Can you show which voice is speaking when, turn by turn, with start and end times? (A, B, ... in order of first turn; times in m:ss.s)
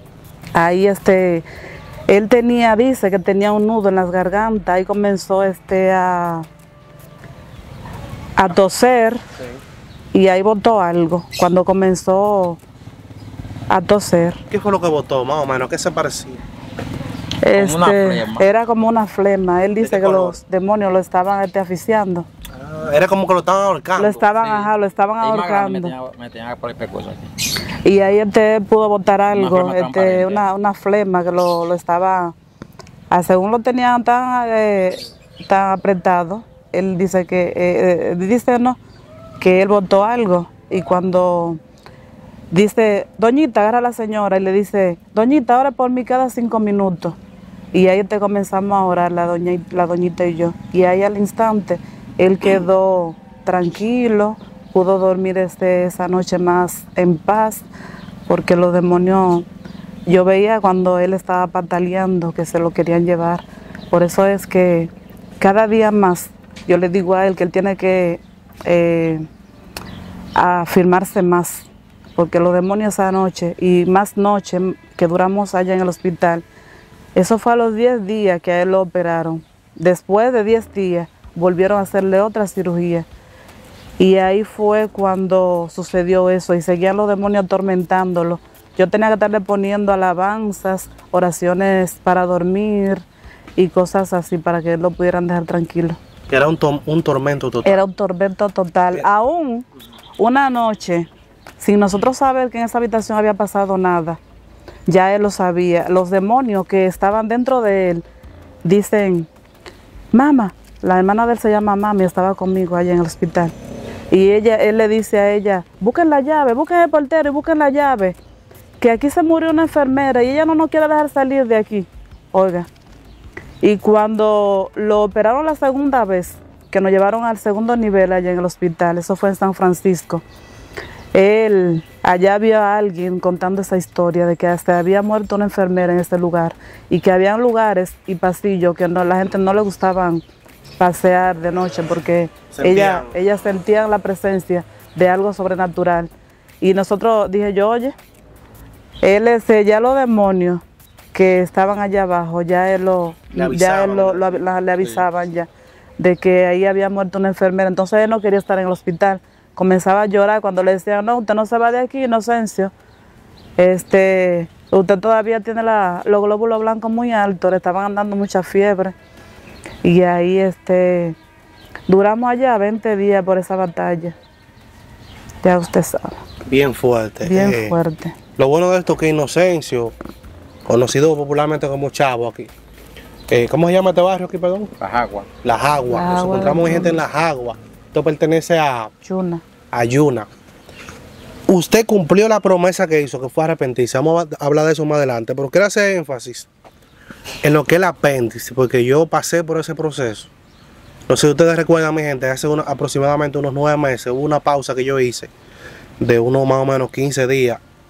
0:00.6-0:01.5 A
0:02.1-0:06.5 A
0:08.4-0:09.2 A
0:10.1-0:12.6 A
0:13.7-0:14.4 A
0:14.5-0:16.4 B
0:17.4-0:22.3 A
0:17.5-0:18.5 C
0:19.8-0:20.4 B
0:22.5-0:24.2 B
0:24.0-0:25.9 A
0:24.4-0:27.3 C
0:27.8-0:32.3 A
0:29.3-0:30.4 C
0:33.1-0:38.8 A
0:39.4-0:41.6 A
0:42.5-0:47.2 A
0:47.7-0:57.7 A
0:58.3-0:59.5 A
1:00.1-1:09.2 A
1:10.4-1:16.4 A
1:17.2-1:23.1 A
1:24.0-1:33.0 A
1:33.6-1:36.0 A
1:36.3-1:37.8 B
1:37.6-1:39.7 A
1:40.2-1:41.1 A
1:41.6-1:44.2 A
1:44.9-1:48.0 A
1:48.6-1:49.3 A
1:50.1-1:53.5 A
1:54.1-1:58.2 A
1:58.8-2:02.7 A
2:03.6-2:10.2 A
2:11.1-2:20.2 A
2:20.8-2:26.1 A
2:22.5-2:23.1 B
2:26.6-2:27.9 A
2:29.0-2:30.6 A
2:31.1-2:35.5 A
2:33.3-2:35.0 B
2:36.0-2:42.7 A
2:43.6-2:48.9 A
2:49.8-2:51.2 A
2:51.9-2:54.2 A
2:55.4-2:56.2 A
2:56.5-2:57.8 B
2:57.2-2:58.2 A
2:58.4-2:59.9 B
3:00.7-3:02.5 B
3:03.3-3:04.7 B
3:04.8-3:05.3 C
3:05.4-3:08.9 B
3:05.9-3:07.0 A
3:09.0-3:09.4 A
3:09.7-3:10.3 B
3:11.5-3:16.5 B
3:17.4-3:20.3 B
3:21.1-3:25.3 B
3:26.0-3:27.6 B